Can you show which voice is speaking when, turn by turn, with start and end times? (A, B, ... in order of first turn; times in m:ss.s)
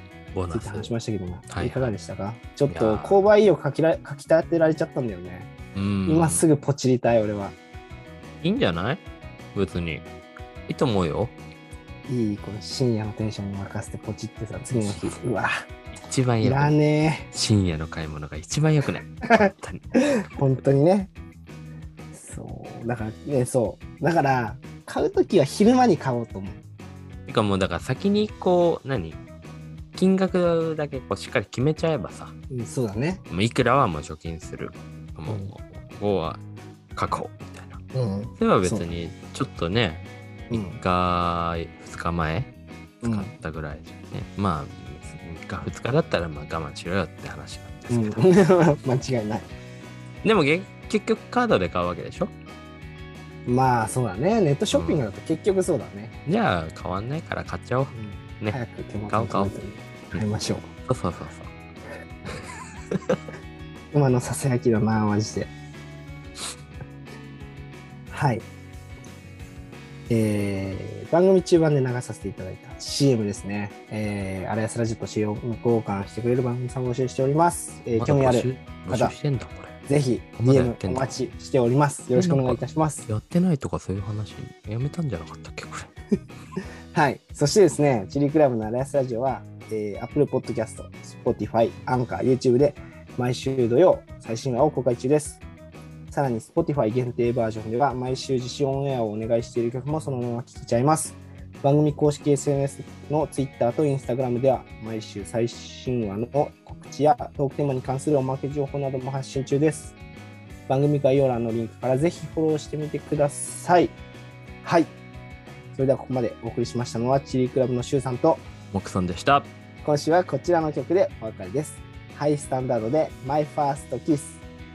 0:00.3-0:00.9 A
0:00.5-0:05.5 B
0:01.5-0:02.0 A
0:02.7-0:03.3 A
0:05.7-0:06.4 A
0:06.0-0:07.6 B
0:08.4-0:09.0 A
0:09.5-0:10.0 A
0:10.7-0:11.3 A
0:12.1-0:15.6 B
0:14.8-0:15.2 A
0:15.9-0:16.8 A
0:16.4-0:17.3 B
0:17.3-0:20.1 A
0:19.3-0:21.1 B
0:22.1-0:26.6 B
0:27.3-0:29.2 A
0:29.9-0:32.3 A
0:32.5-0:33.2 B
0:33.3-0:36.4 A
0:35.3-0:35.5 B
0:36.9-0:37.8 A
0:37.9-0:39.0 B
0:38.4-0:42.5 A
0:40.5-0:40.8 B
0:43.0-0:43.3 B
0:43.0-0:48.3 A
0:47.9-0:49.5 B
0:50.2-0:52.3 A
0:53.4-0:56.1 B
0:54.7-0:55.0 A
0:56.2-0:59.6 A
0:57.9-1:00.7 B
1:00.8-1:01.5 A
1:02.3-1:03.2 A
1:03.9-1:05.5 B
1:08.1-1:08.4 B
1:10.1-1:19.2 B
1:17.9-1:19.7 A
1:19.9-1:23.1 B
1:20.4-1:21.1 A
1:22.1-1:25.9 A
1:26.9-1:35.4 B
1:36.1-1:49.9 B
1:50.7-1:53.9 B
1:54.6-1:54.9 B
1:55.7-1:58.4 B
1:58.7-1:59.5 A
1:59.8-2:04.4 B